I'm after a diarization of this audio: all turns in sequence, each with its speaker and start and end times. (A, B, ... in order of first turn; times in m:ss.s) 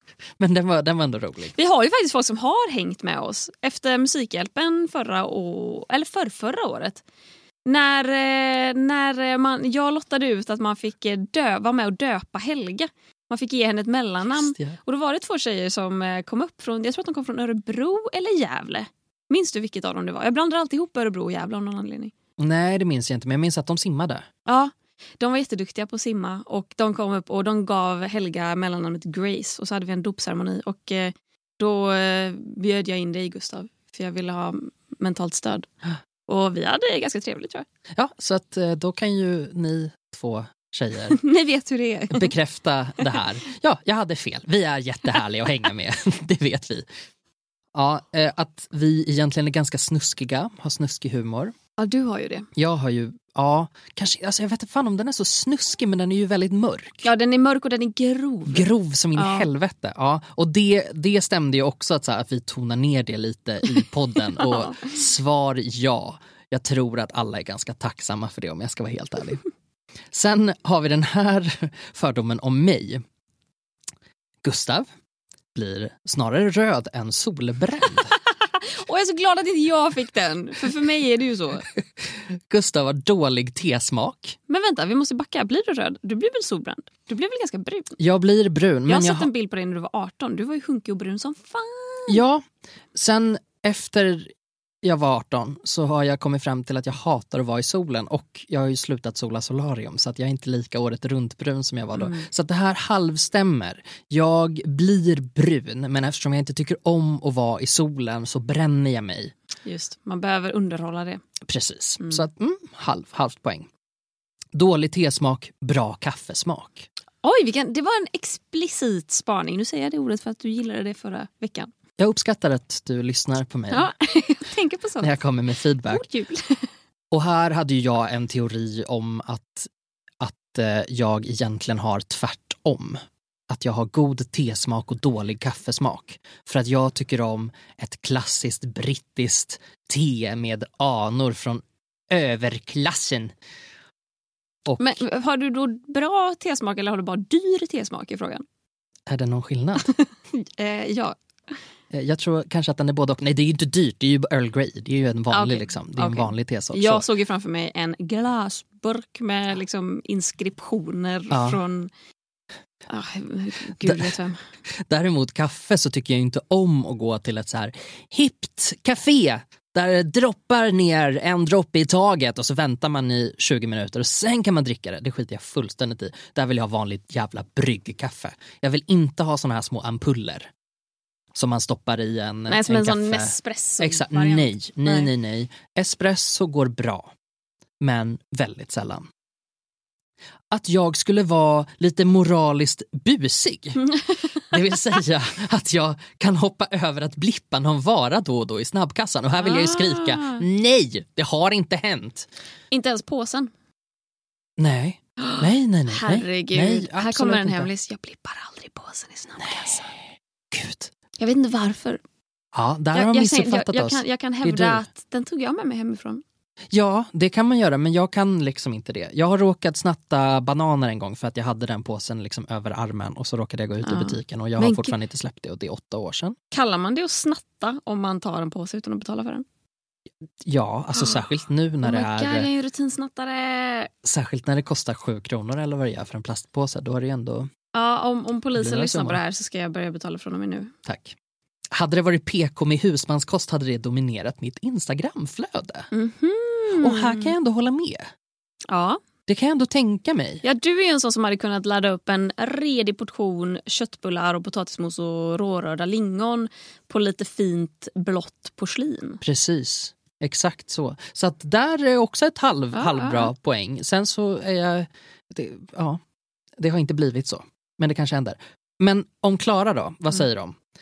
0:00.4-0:01.5 A
0:01.6-0:07.0 B
0:07.7-0:22.1 B
0:14.4-0:14.8 A
0:22.4-0:24.3 A
0:24.5-0:35.7 B
0:36.3-0:37.7 B
0:38.0-0:41.2 A
0:41.1-0:42.4 B
0:42.1-0:46.9 A
0:47.8-0:51.6 A
0:51.8-0:52.5 B
0:52.6-0:57.1 A
0:57.0-0:59.5 B
0:58.5-1:09.4 A
1:04.4-1:04.9 B
1:10.1-1:13.0 A
1:14.4-1:14.9 A
1:15.6-1:18.2 A
1:18.3-1:21.7 B
1:22.0-1:24.4 A
1:24.5-1:28.0 B
1:28.0-1:29.3 A
1:28.9-1:32.2 B
1:32.1-1:32.4 A
1:33.0-1:34.3 A
1:34.8-1:49.3 A
1:42.0-1:42.3 B
1:49.6-1:51.2 B
1:51.4-1:53.7 A
1:54.5-1:56.9 A
1:57.2-2:01.7 B
2:02.0-2:03.9 A
2:03.7-2:05.2 B
2:05.0-2:06.0 A
2:05.9-2:06.7 B
2:07.1-2:09.7 A
2:10.2-2:23.3 A
2:24.6-2:25.0 A
2:24.8-2:28.4 B
2:29.1-2:30.0 A
2:29.8-2:31.2 B
2:31.9-2:37.0 A
2:35.3-2:41.9 B
2:41.3-2:41.6 A
2:42.9-2:44.5 B
2:43.8-2:44.1 A
2:44.7-3:00.5 A
3:01.4-3:07.1 A
3:02.5-3:05.1 B
3:07.8-3:09.1 A
3:10.5-3:22.3 A
3:19.4-3:20.4 B
3:22.7-3:23.5 B
3:24.6-3:27.7 A
3:25.2-3:29.9 B
3:29.4-3:30.9 A
3:31.2-3:32.0 B
3:32.5-3:34.8 A
3:32.9-3:36.2 B
3:36.7-3:46.4 A
3:43.8-3:44.9 B
3:46.5-3:49.4 B
3:50.5-3:52.5 A
3:51.0-3:51.2 B
3:51.8-3:53.9 B
3:54.0-3:57.5 A
3:57.7-4:00.7 B
3:58.6-3:59.2 A
4:00.8-4:01.2 A
4:01.7-4:05.9 A
4:05.9-4:07.3 B
4:06.8-4:08.1 A
4:08.7-4:09.0 B
4:09.3-4:10.4 A
4:10.4-4:19.2 B
4:19.2-4:26.0 A
4:22.7-4:23.3 B
4:26.6-4:30.6 A